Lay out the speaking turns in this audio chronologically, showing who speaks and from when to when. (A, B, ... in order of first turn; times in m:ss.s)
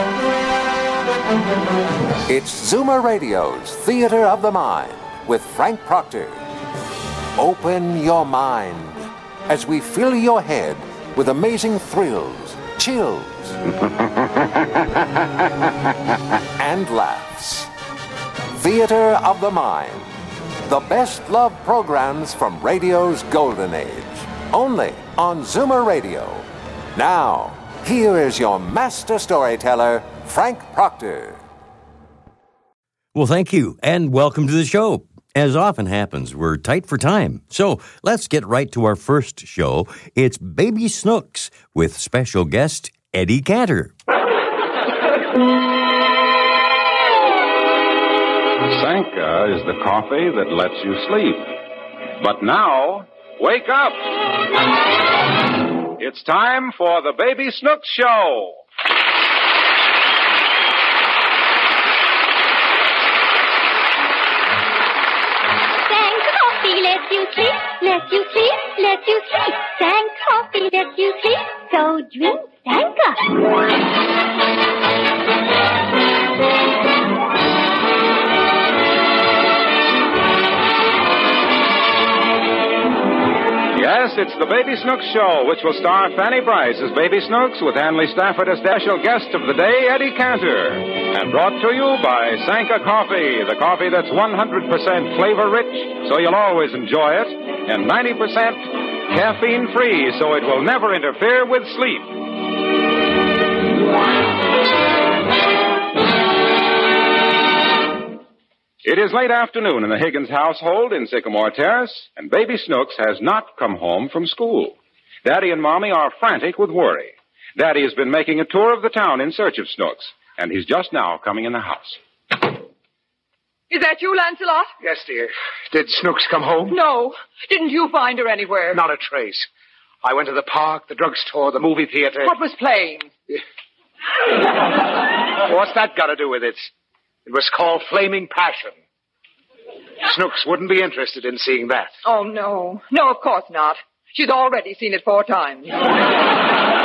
0:02.3-0:06.4 A
0:07.3-0:13.6 A
0:16.6-0:17.7 A
0:18.5-0:31.4 A
0:33.1-0:43.9 B
0:48.7-0:51.6 C
0:52.2-0:54.1 C
0:56.0-0:58.6 C
1:05.8-1:13.5 D
1:23.7-1:42.2 C
1:48.8-2:02.0 C
2:03.7-2:04.7 E
2:04.8-2:06.8 F
2:06.7-2:08.8 E
2:08.7-2:09.5 F
2:10.0-2:12.3 F
2:12.2-2:13.1 E
2:15.4-2:16.7 F
2:17.2-2:18.8 F
2:20.0-2:22.0 F
2:22.0-2:25.9 E